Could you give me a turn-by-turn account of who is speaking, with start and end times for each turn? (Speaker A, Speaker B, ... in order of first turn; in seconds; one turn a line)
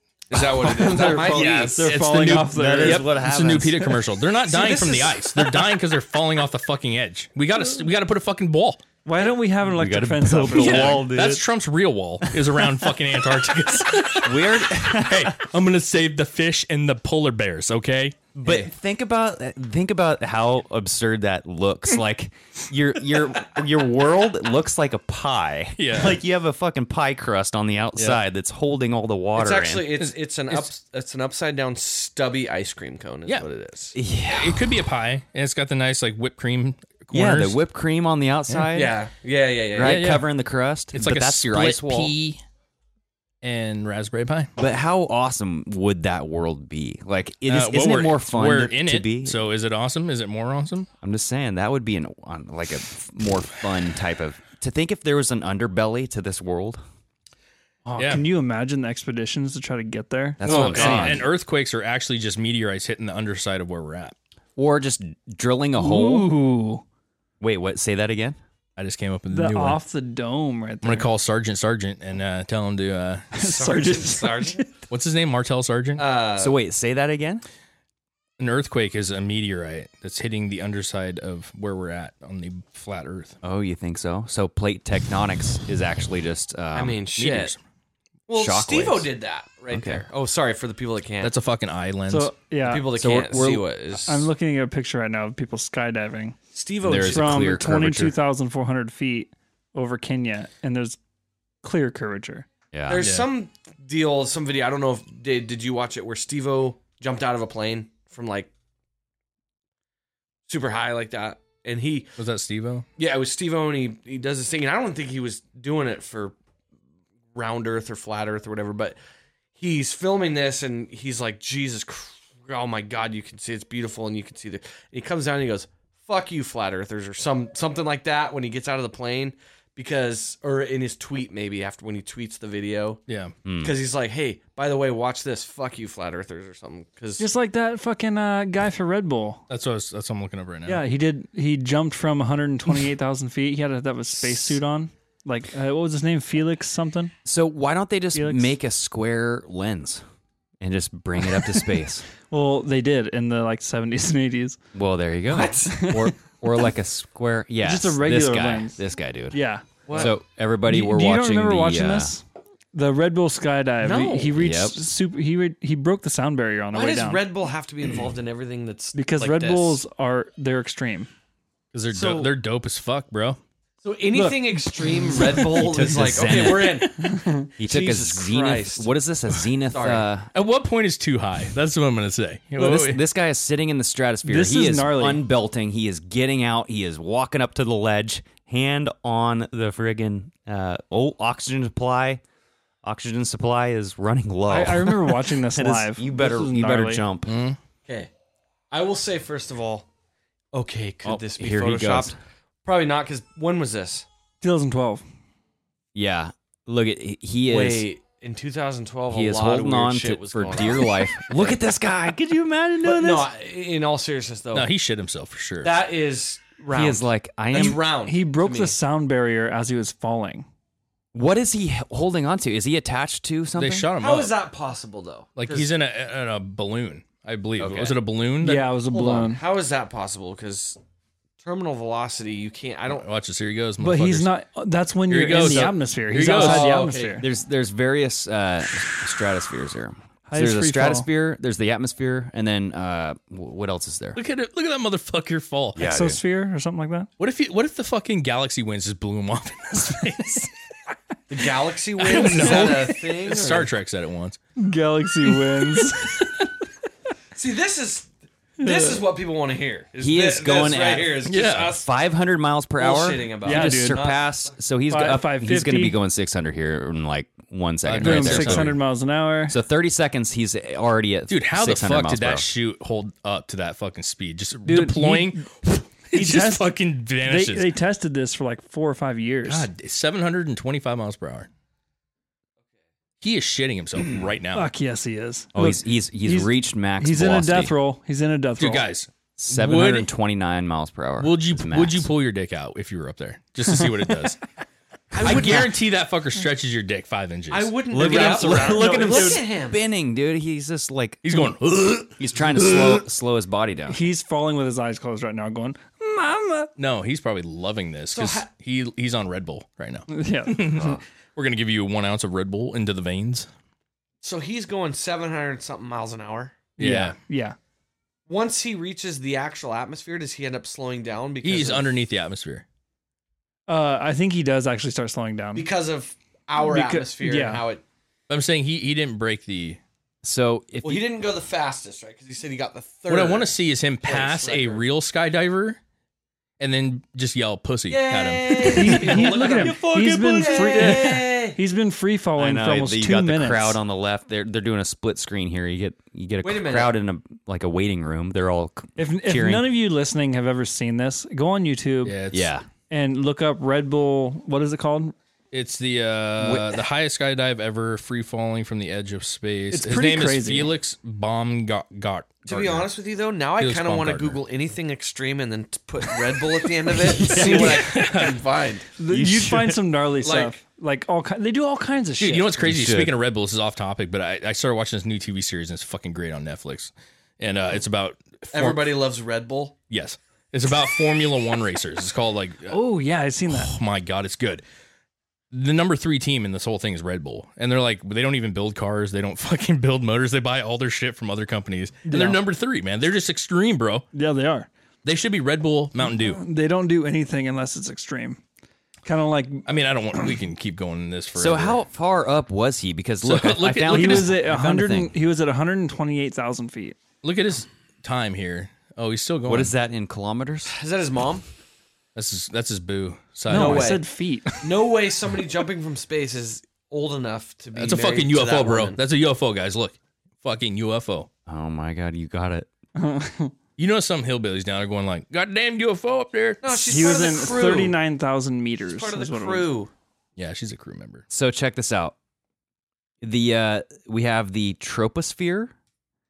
Speaker A: 0.3-1.9
Speaker B: 0.7-3.1
Speaker C: 0.9-4.0
Speaker D: 1.9-8.8
Speaker A: 4.5-5.5
Speaker B: 9.0-11.1
Speaker C: 9.6-11.4
Speaker D: 10.5-18.2
Speaker C: 14.2-15.4
Speaker C: 18.3-29.9
Speaker D: 25.8-26.2
Speaker D: 27.9-28.2
Speaker A: 29.4-33.9
Speaker D: 30.0-30.7
Speaker C: 33.9-34.7
Speaker D: 34.3-37.6
Speaker C: 37.1-39.0
Speaker A: 38.7-40.0
Speaker C: 39.7-42.1
Speaker D: 39.8-40.2
Speaker D: 40.9-42.4
Speaker D: 43.4-44.5
Speaker C: 44.6-49.4
Speaker D: 47.5-50.9
Speaker C: 51.0-56.8
Speaker B: 57.9-61.1
Speaker D: 58.0-58.3
Speaker C: 60.4-61.3
Speaker D: 60.4-64.1
Speaker A: 60.5-61.2
Speaker C: 64.6-66.3
Speaker B: 65.8-66.8
Speaker C: 67.4-68.4
Speaker D: 68.8-69.8
Speaker B: 69.3-71.1
Speaker D: 70.8-73.3
Speaker B: 73.3-74.7
Speaker A: 73.3-74.7
Speaker D: 74.9-76.0
Speaker A: 76.0-76.6
Speaker C: 76.4-77.4
Speaker D: 78.4-83.3
Speaker C: 83.4-87.0
Speaker A: 86.7-87.5
Speaker D: 87.2-87.6
Speaker A: 88.3-91.3
Speaker C: 88.3-89.1
Speaker C: 89.7-90.0
Speaker D: 91.2-92.3
Speaker B: 92.1-96.3
Speaker A: 92.6-94.3
Speaker C: 93.0-93.6
Speaker A: 96.5-97.5
Speaker C: 96.8-98.2
Speaker B: 97.1-101.0
Speaker B: 101.6-102.5
Speaker C: 102.7-103.0
Speaker A: 102.9-108.5
Speaker D: 103.0-103.3
Speaker A: 110.5-112.1
Speaker D: 112.2-112.8
Speaker A: 113.0-116.3
Speaker A: 117.3-119.0
Speaker A: 119.6-133.0
Speaker D: 133.1-133.3
Speaker C: 133.4-133.8
Speaker A: 133.6-137.2
Speaker B: 137.2-139.4
Speaker D: 139.5-140.8
Speaker B: 140.7-147.1
Speaker C: 147.2-150.0
Speaker B: 148.1-148.5
Speaker C: 150.6-152.0
Speaker B: 152.2-154.6
Speaker C: 154.7-159.4
Speaker A: 155.3-155.8
Speaker B: 155.7-156.1
Speaker B: 157.6-158.8
Speaker B: 159.3-159.7
Speaker A: 159.9-160.2
Speaker C: 159.9-162.1
Speaker B: 160.7-167.2
Speaker A: 163.8-164.4
Speaker C: 164.3-164.8
Speaker A: 166.7-169.8
Speaker B: 168.9-171.1
Speaker D: 171.7-173.4
Speaker A: 171.9-172.3
Speaker A: 173.8-178.9
Speaker B: 174.1-175.2
Speaker C: 175.2-176.9
Speaker B: 177.0-177.5
Speaker C: 177.6-180.3
Speaker A: 179.7-180.1
Speaker D: 180.3-183.0
Speaker C: 182.6-192.2
Speaker B: 184.2-185.3
Speaker C: 192.8-197.4
Speaker B: 194.5-197.0
Speaker D: 197.2-197.6
Speaker A: 198.7-199.8
Speaker A: 200.5-204.1
Speaker C: 201.0-202.2
Speaker B: 204.4-205.0
Speaker C: 205.9-207.8
Speaker A: 207.5-211.6
Speaker C: 209.1-213.3
Speaker A: 212.8-214.7
Speaker D: 214.5-215.7
Speaker A: 215.6-218.8
Speaker C: 216.7-217.8
Speaker B: 218.1-220.4
Speaker C: 221.1-223.9
Speaker D: 223.6-224.3
Speaker A: 224.0-225.7
Speaker D: 225.4-228.7
Speaker C: 227.6-227.9
Speaker A: 227.6-227.9
Speaker B: 228.4-229.4
Speaker A: 228.9-230.8
Speaker A: 231.4-233.0
Speaker D: 232.9-234.3
Speaker B: 233.8-237.3
Speaker D: 235.1-236.8
Speaker C: 235.4-235.7
Speaker A: 236.3-237.2
Speaker C: 237.2-244.2
Speaker B: 240.3-241.1
Speaker D: 244.2-245.8
Speaker C: 245.7-246.2
Speaker B: 245.8-247.1
Speaker D: 247.2-250.5
Speaker A: 251.3-253.7
Speaker D: 252.0-254.4
Speaker B: 252.1-252.8
Speaker B: 254.6-256.3
Speaker D: 255.6-256.4
Speaker A: 257.3-261.9
Speaker B: 258.6-259.0
Speaker C: 260.0-261.2
Speaker D: 261.2-261.8
Speaker C: 261.8-268.8
Speaker A: 262.8-264.4
Speaker B: 263.4-264.0
Speaker B: 264.9-266.0
Speaker D: 267.8-268.8
Speaker B: 268.0-269.6
Speaker C: 269.5-272.4
Speaker D: 271.3-277.7
Speaker B: 274.6-275.5
Speaker B: 276.1-279.7
Speaker D: 279.4-281.5
Speaker D: 283.2-284.7
Speaker B: 284.5-288.9
Speaker C: 285.5-287.7
Speaker D: 288.6-290.1
Speaker C: 289.4-292.1
Speaker D: 291.2-294.4
Speaker C: 295.1-295.7
Speaker A: 295.1-295.7
Speaker D: 295.2-297.7
Speaker A: 297.5-299.8
Speaker C: 297.9-301.5
Speaker B: 297.9-299.4
Speaker D: 301.2-303.0
Speaker C: 302.2-304.0
Speaker B: 303.9-306.7
Speaker D: 306.8-313.5
Speaker A: 308.1-308.5
Speaker B: 310.1-310.6
Speaker C: 310.7-311.0
Speaker A: 314.2-316.6
Speaker D: 316.8-317.2
Speaker B: 316.8-317.6
Speaker A: 318.3-321.9
Speaker D: 321.4-322.6
Speaker B: 323.7-325.7
Speaker A: 325.5-327.8
Speaker B: 326.6-327.6
Speaker D: 328.3-329.8
Speaker C: 330.2-331.1
Speaker A: 330.8-334.8
Speaker D: 333.1-335.8
Speaker D: 336.6-341.2
Speaker A: 337.9-341.6
Speaker B: 338.6-343.8
Speaker C: 342.4-349.7
Speaker A: 346.4-347.0
Speaker B: 349.0-352.2
Speaker D: 352.0-352.5
Speaker C: 352.3-352.7
Speaker B: 352.9-355.1
Speaker D: 355.5-362.9
Speaker C: 356.4-356.8
Speaker B: 359.7-360.7
Speaker A: 362.4-368.9
Speaker D: 363.6-364.4
Speaker C: 367.0-367.9
Speaker D: 367.3-368.4
Speaker B: 367.4-367.6
Speaker B: 369.0-372.6
Speaker C: 369.1-369.8
Speaker A: 370.2-370.6
Speaker D: 372.2-379.0
Speaker C: 372.6-373.2
Speaker A: 378.5-379.7
Speaker D: 379.9-382.8
Speaker B: 382.7-383.7
Speaker D: 383.5-384.6
Speaker D: 385.5-394.1
Speaker B: 392.1-392.4
Speaker B: 394.1-394.7
Speaker D: 395.0-396.4
Speaker B: 396.0-398.4
Speaker B: 399.0-399.7
Speaker D: 399.6-401.8
Speaker C: 401.3-405.1
Speaker D: 403.2-404.4
Speaker B: 403.9-407.0
Speaker D: 407.2-409.7
Speaker C: 409.4-410.7
Speaker A: 410.7-411.4
Speaker D: 412.1-414.0
Speaker B: 413.5-414.5
Speaker A: 413.5-414.0
Speaker A: 414.6-419.0
Speaker D: 417.7-421.3
Speaker C: 421.5-422.7
Speaker B: 422.9-423.5
Speaker D: 423.8-426.6
Speaker A: 426.6-428.0
Speaker B: 426.9-429.7
Speaker A: 428.9-429.9
Speaker D: 430.4-431.2
Speaker C: 431.3-432.1
Speaker C: 433.2-435.7